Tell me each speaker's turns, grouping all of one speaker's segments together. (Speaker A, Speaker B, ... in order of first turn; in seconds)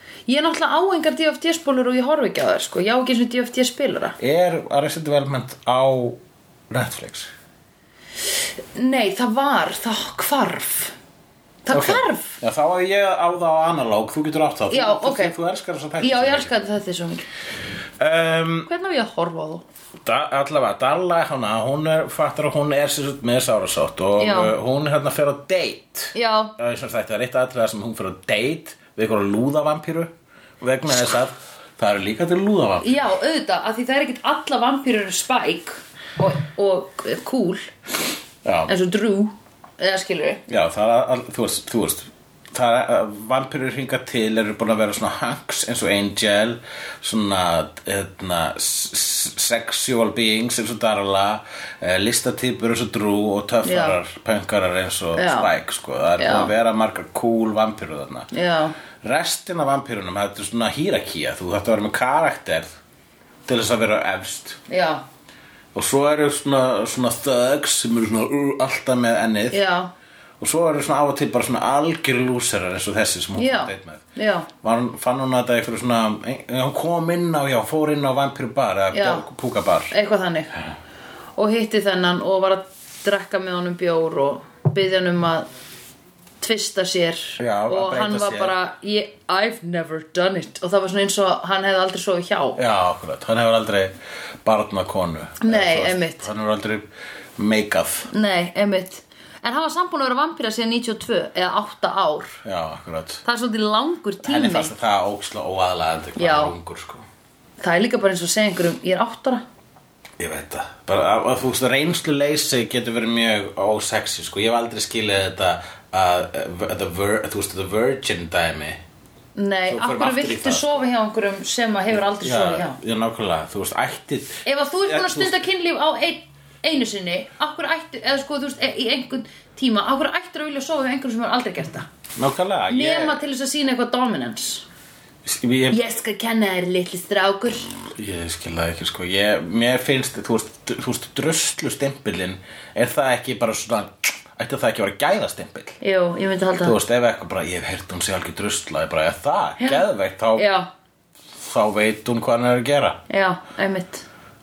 Speaker A: 0.3-4.2, 8.8-10.9, 11.7-12.4, 14.7-15.3, 16.0-17.3, 18.7-19.6, 24.2-24.5, 26.1-26.5, 32.8-37.7, 38.7-40.4, 53.6-54.0, 55.2-55.5, 56.2-56.5, 58.3-58.8, 64.7-65.0, 69.5-69.9, 73.4-74.5, 78.9-79.3, 79.9-80.5, 81.4-85.5, 86.4-92.6, 95.4-96.3, 98.1-102.4, 103.2-104.7, 106.2-106.5, 107.6-109.4, 119.4-122.8, 124.5-131.9, 132.7-134.7, 135.7-137.7, 145.8-146.8, 150.4-150.7, 153.1-154.1
Speaker B: 4.2-7.3, 11.7-16.5, 18.0-18.7, 20.0-33.1, 38.4-38.7, 40.5-58.3, 59.0-62.7, 63.5-64.6, 65.7-69.6, 70.4-74.1, 74.6-79.9, 87.4-88.5, 92.6-96.9, 97.4-98.1, 102.4-103.2, 104.2-107.0, 110.2-118.8, 119.7-120.8, 121.9-125.4, 132.2-133.2, 135.2-135.8, 137.9-145.8, 146.6-150.5, 151.4-153.0